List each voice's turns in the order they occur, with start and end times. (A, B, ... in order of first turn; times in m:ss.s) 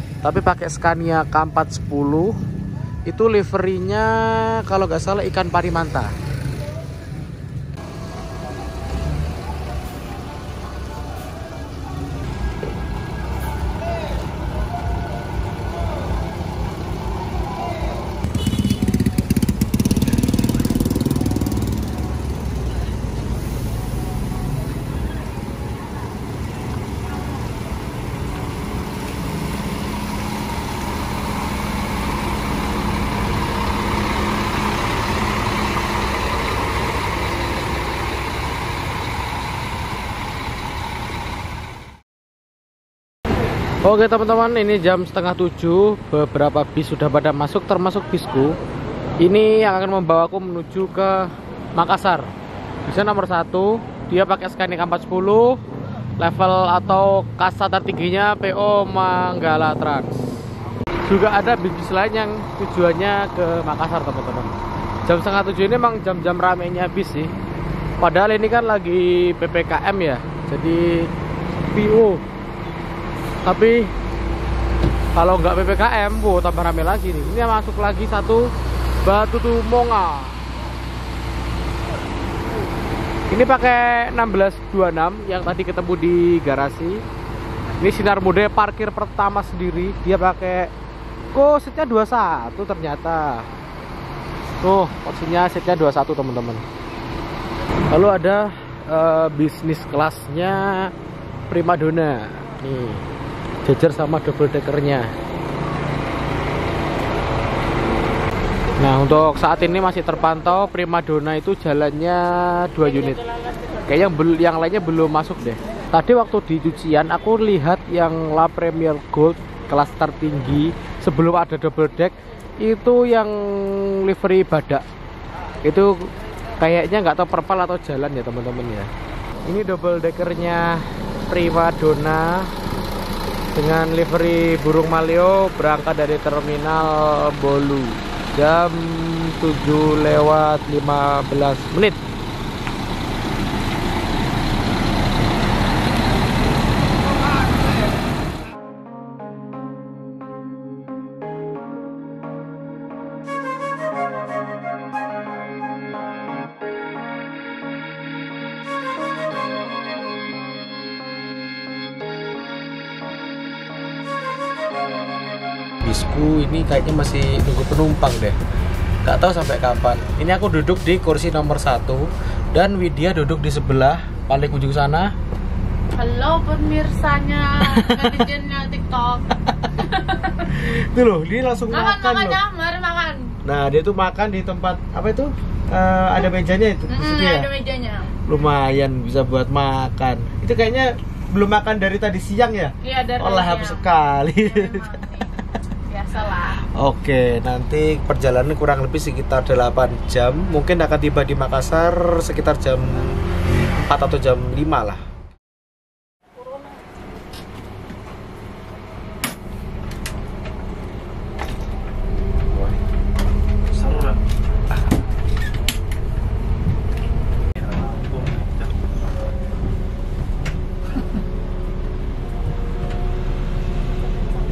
0:00.2-0:02.3 A
0:03.1-0:06.1 A
0:43.8-0:48.5 A
0:49.2-0:52.3 A
0:52.9-0:55.6 A
0:56.2-1:00.2 A
1:01.1-1:04.6 A
1:05.1-1:07.3 A
1:08.0-1:11.1 A
1:11.7-1:12.2 A
1:13.5-1:13.9 A
1:15.2-1:18.5 A
1:19.0-1:20.4 A
1:23.3-1:27.0 A
1:27.8-1:30.7 A
1:31.3-1:33.5 A
1:34.6-1:36.6 A
1:37.9-1:40.9 A
1:41.5-1:43.1 A
1:43.7-1:45.1 A
1:48.8-1:53.2 A
1:53.3-1:53.8 B
1:53.9-2:04.8 A
2:05.6-2:06.0 A
2:06.6-2:08.9 A
2:09.5-2:12.5 A
2:13.6-2:22.0 A
2:45.8-2:48.4 A
2:49.0-2:55.1 A
2:56.0-3:00.6 B
2:57.6-2:58.3 A
2:59.4-2:59.8 A
3:00.4-3:02.4 A
3:01.7-3:03.3 B
3:03.4-3:07.5 A
3:06.9-3:08.2 B
3:08.3-3:15.0 A
3:12.8-3:15.3 B
3:15.9-3:16.6 B
3:16.7-3:23.2 A
3:23.8-3:25.0 A
3:33.8-3:34.2 A